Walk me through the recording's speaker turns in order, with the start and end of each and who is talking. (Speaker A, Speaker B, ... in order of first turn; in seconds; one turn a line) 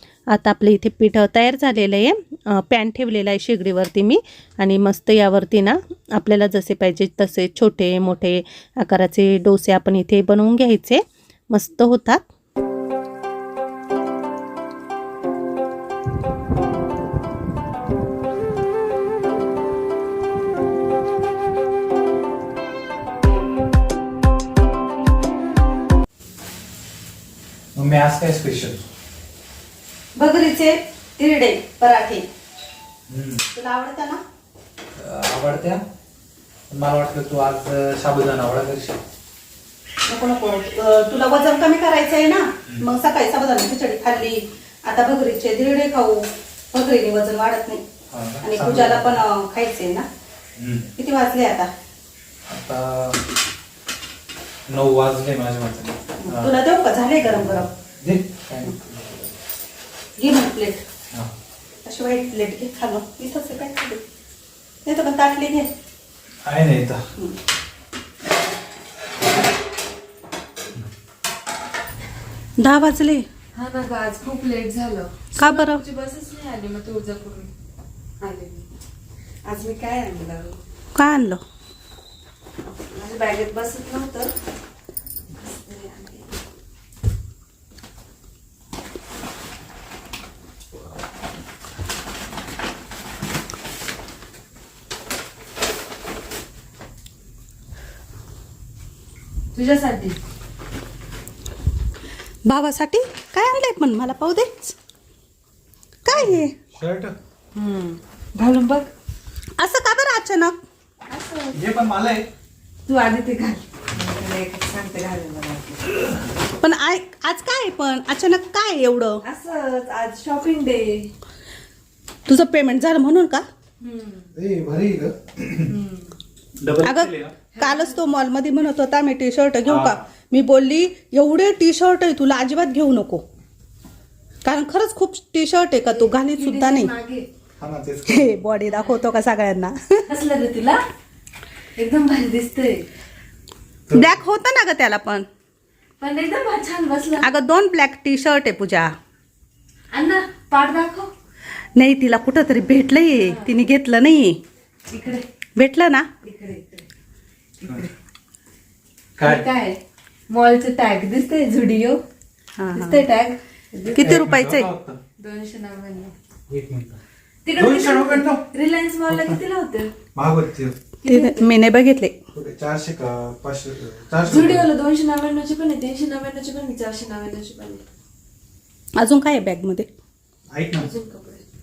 Speaker A: 0.3-12.2
Speaker B: 27.8-28.8
Speaker A: 30.1-32.2
Speaker B: 33.1-33.4
Speaker A: 33.5-34.2
Speaker B: 35.0-35.8
Speaker B: 36.7-39.0
Speaker A: 40.1-47.8
Speaker B: 48.1-49.2
Speaker A: 48.4-50.1
Speaker B: 50.6-50.9
Speaker A: 51.0-51.7
Speaker B: 52.5-53.2
Speaker B: 54.7-56.5
Speaker A: 56.2-57.7
Speaker B: 57.2-59.4
Speaker A: 60.2-60.8
Speaker A: 61.9-64.0
Speaker A: 64.8-65.7
Speaker B: 66.5-67.0
Speaker A: 72.6-73.2
Speaker C: 73.5-77.5
Speaker A: 75.4-75.8
Speaker C: 78.2-78.7
Speaker C: 79.5-80.6
Speaker A: 81.0-81.4
Speaker C: 82.6-84.3
Speaker C: 85.4-86.3
Speaker C: 99.5-100.2
Speaker A: 102.5-104.8
Speaker A: 106.0-106.5
Speaker B: 106.1-107.2
Speaker C: 107.5-108.9
Speaker A: 109.6-110.6
Speaker C: 111.1-111.6
Speaker B: 111.5-112.2
Speaker C: 112.9-115.9
Speaker A: 116.6-119.2
Speaker C: 119.2-121.1
Speaker A: 122.3-123.5
Speaker C: 123.8-124.3
Speaker B: 124.4-125.7
Speaker C: 125.7-126.1
Speaker B: 126.6-127.3
Speaker A: 126.8-133.2
Speaker C: 127.5-128.0
Speaker B: 129.7-130.0
Speaker A: 134.4-136.9
Speaker C: 135.9-137.2
Speaker B: 137.6-138.4
Speaker A: 138.1-140.1
Speaker C: 140.1-140.8
Speaker C: 141.8-142.9
Speaker B: 143.9-144.2
Speaker A: 143.9-145.3
Speaker C: 146.0-147.3
Speaker A: 147.2-148.9
Speaker C: 149.9-151.1
Speaker A: 151.8-154.4
Speaker C: 153.1-153.6
Speaker C: 154.9-155.3
Speaker A: 155.6-156.1
Speaker C: 156.2-156.9
Speaker B: 157.6-157.9
Speaker B: 159.2-159.5
Speaker C: 159.2-159.8
Speaker C: 160.3-162.0
Speaker A: 162.6-163.0
Speaker C: 162.7-163.4
Speaker B: 163.9-165.0
Speaker A: 163.9-164.7
Speaker C: 165.2-166.1
Speaker B: 166.5-167.0
Speaker C: 167.5-169.9
Speaker B: 167.6-168.4
Speaker B: 169.1-169.4
Speaker B: 170.1-170.8
Speaker C: 171.0-171.4
Speaker A: 171.1-172.2
Speaker B: 172.3-174.7
Speaker C: 174.2-177.9
Speaker A: 179.0-179.9
Speaker B: 180.5-180.9
Speaker C: 180.7-181.4